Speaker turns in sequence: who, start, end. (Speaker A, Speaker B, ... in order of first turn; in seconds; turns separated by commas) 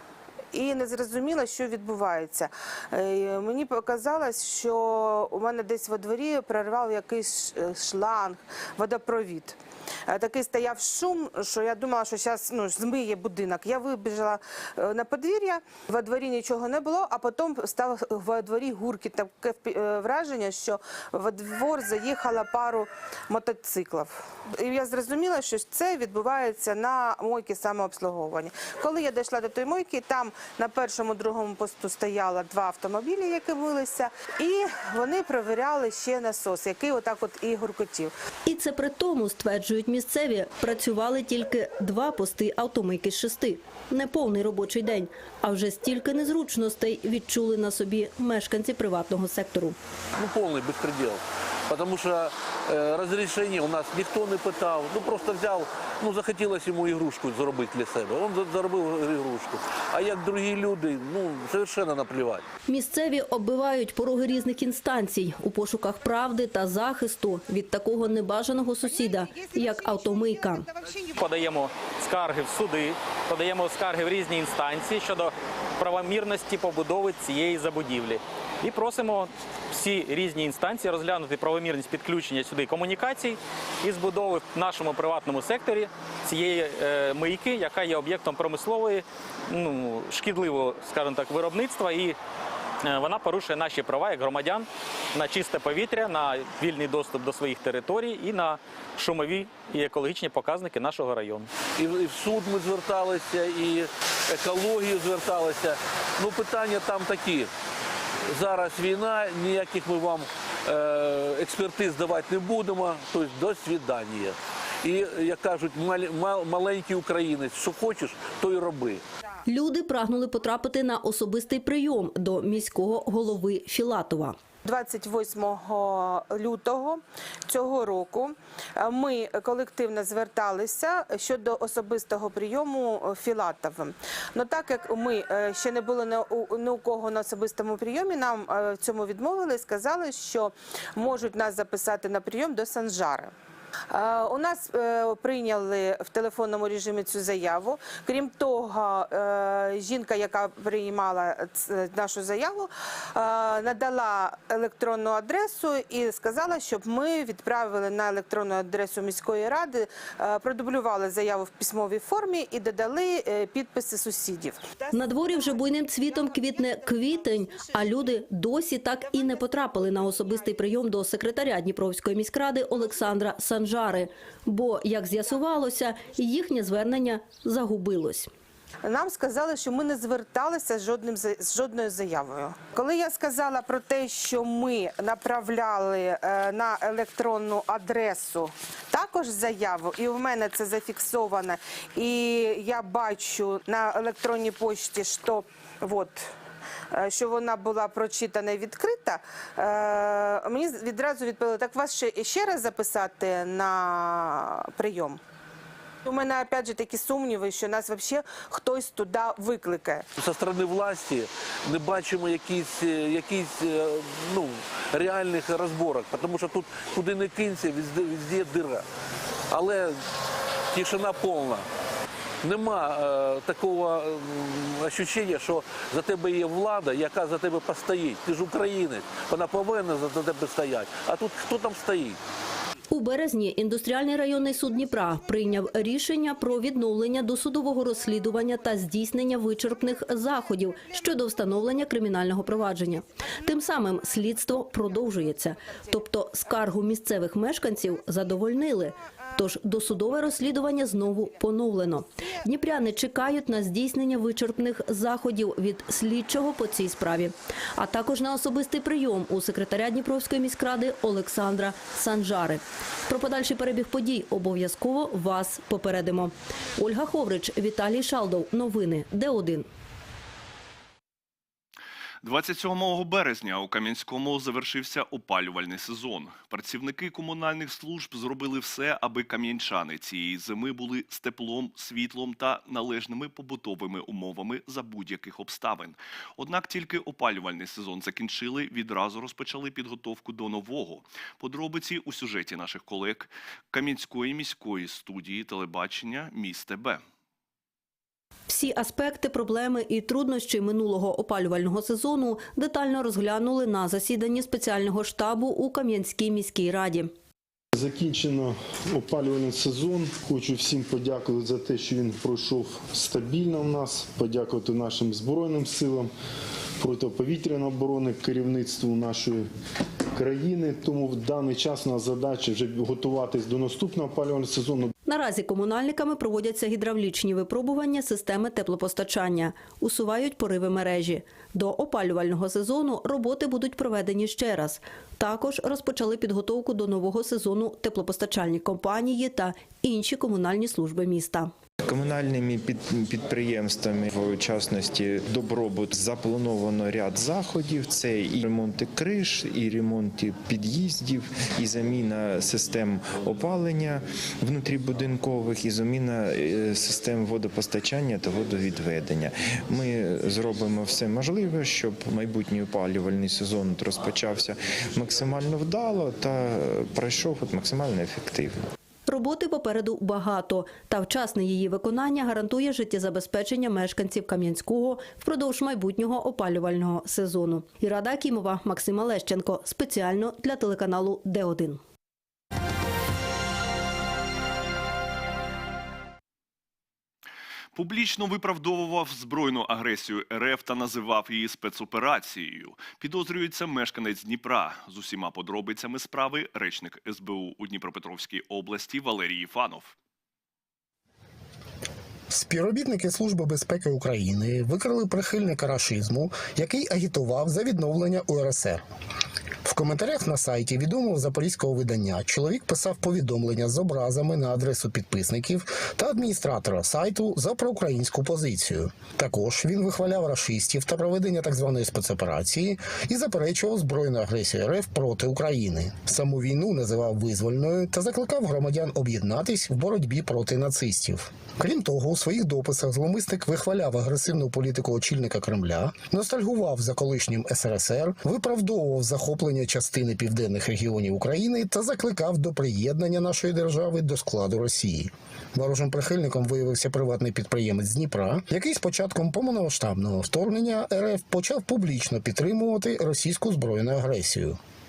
Speaker A: 0.5-38.1, Speaker B: 38.5-49.8, Speaker C: 50.1-62.4, Speaker B: 62.7-70.7, Speaker D: 71.2-92.2, Speaker D: 92.8-101.5, Speaker C: 101.8-107.5, Speaker C: 108.3-119.0, Speaker B: 119.5-124.4, Speaker A: 124.6-143.3, Speaker A: 143.9-164.8, Speaker B: 164.9-178.3, Speaker A: 178.8-196.2, Speaker A: 196.9-205.2, Speaker A: 206.0-210.1, Speaker C: 210.2-218.8, Speaker C: 219.5-220.0, Speaker C: 220.7-221.7, Speaker C: 222.4-232.2, Speaker B: 232.9-269.7, Speaker E: 272.2-297.0, Speaker B: 298.5-307.1, Speaker F: 307.7-316.1, Speaker F: 316.8-319.4, Speaker F: 320.1-324.9, Speaker B: 325.1-341.5, Speaker G: 341.8-368.6, Speaker B: 369.1-381.8, Speaker E: 387.7-399.9, Speaker H: 402.3-408.8, Speaker H: 409.6-454.6